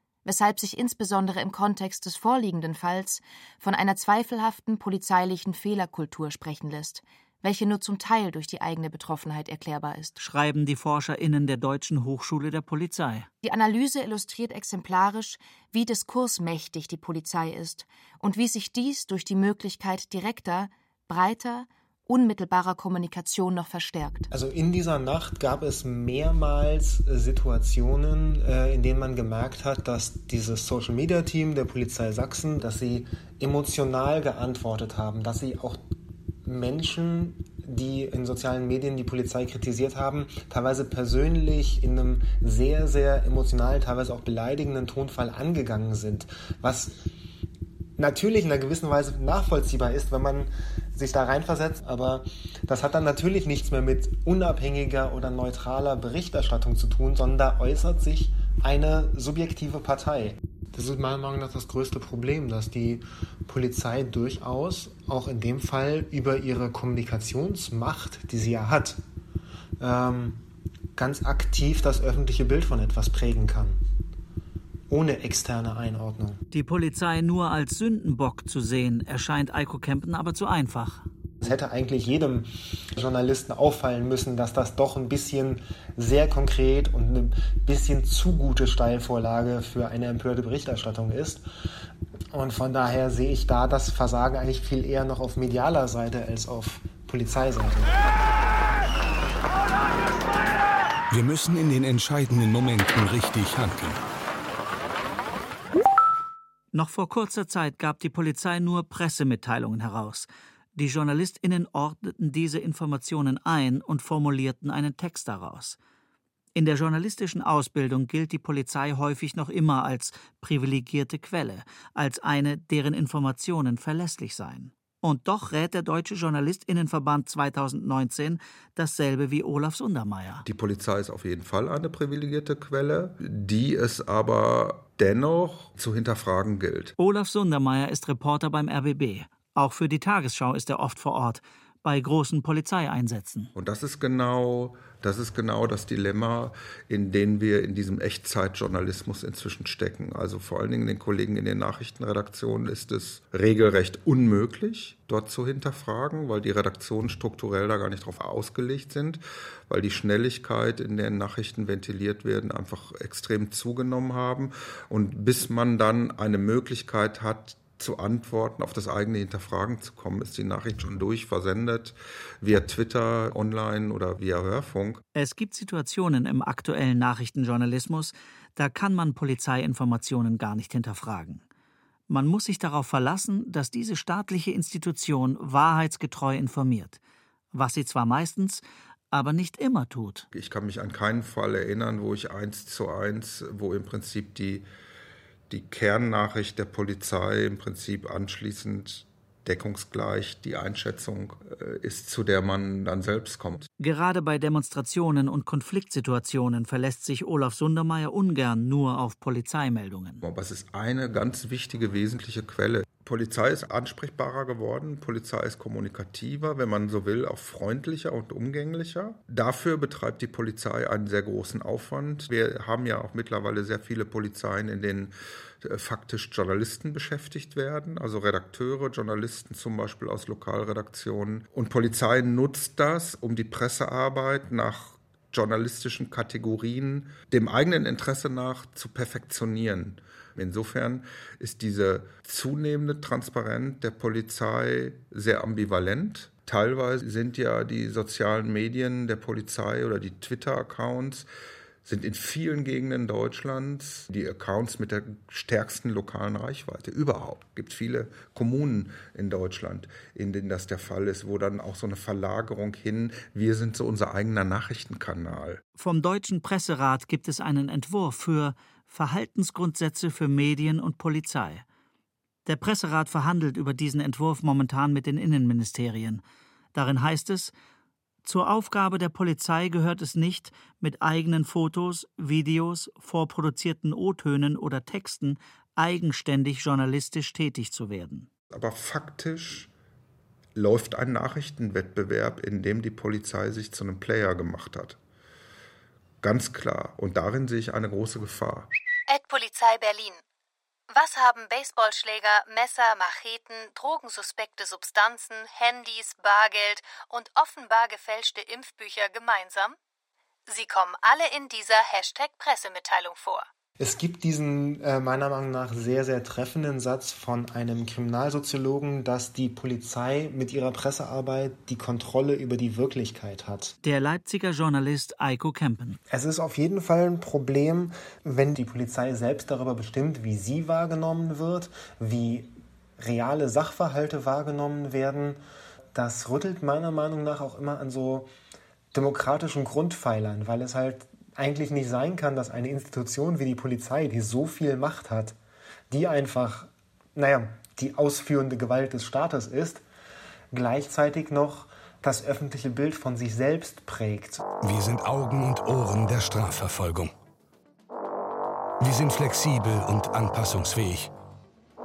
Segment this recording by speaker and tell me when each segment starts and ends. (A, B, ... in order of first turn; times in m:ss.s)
0:00.2-0:10.1 A
0:10.2-0:13.3 B
0:13.4-0:24.3 A
0:24.3-0:35.8 C
0:36.4-0:47.0 C
0:48.0-1:09.0 C
1:09.8-1:10.4 C
1:11.0-1:13.8 C
1:14.9-1:16.4 C
1:16.5-1:21.0 B
1:21.4-1:31.4 C
1:32.3-1:37.9 C
1:41.1-1:44.0 D
1:46.7-1:55.8 B
1:56.5-2:10.4 B
2:10.4-2:16.9 E
2:17.0-2:23.5 B
2:23.6-2:55.0 E
2:55.2-3:01.4 B
3:02.1-3:07.0 B
3:07.5-3:10.2 B
3:10.3-3:14.6 E
3:15.5-3:23.7 E
3:23.8-3:30.2 B
3:30.2-4:11.3 E
4:11.8-4:25.6 E
4:25.8-4:31.6 B
4:32.4-4:36.2 B
4:36.7-4:37.5 B
4:38.2-4:48.3 B
4:48.5-4:49.7 E
4:50.6-4:55.0 E
4:56.2-4:58.7 E
4:59.1-5:00.2 F
5:00.9-5:09.8 F
5:10.5-5:13.4 F
5:13.8-5:23.7 C
5:23.8-5:26.0 B
5:26.1-5:35.4 C
5:35.9-5:38.3 C
5:38.9-5:45.3 C
5:45.9-5:49.8 C
5:50.5-5:54.4 C
5:54.6-5:57.1 D
5:58.8-6:01.1 D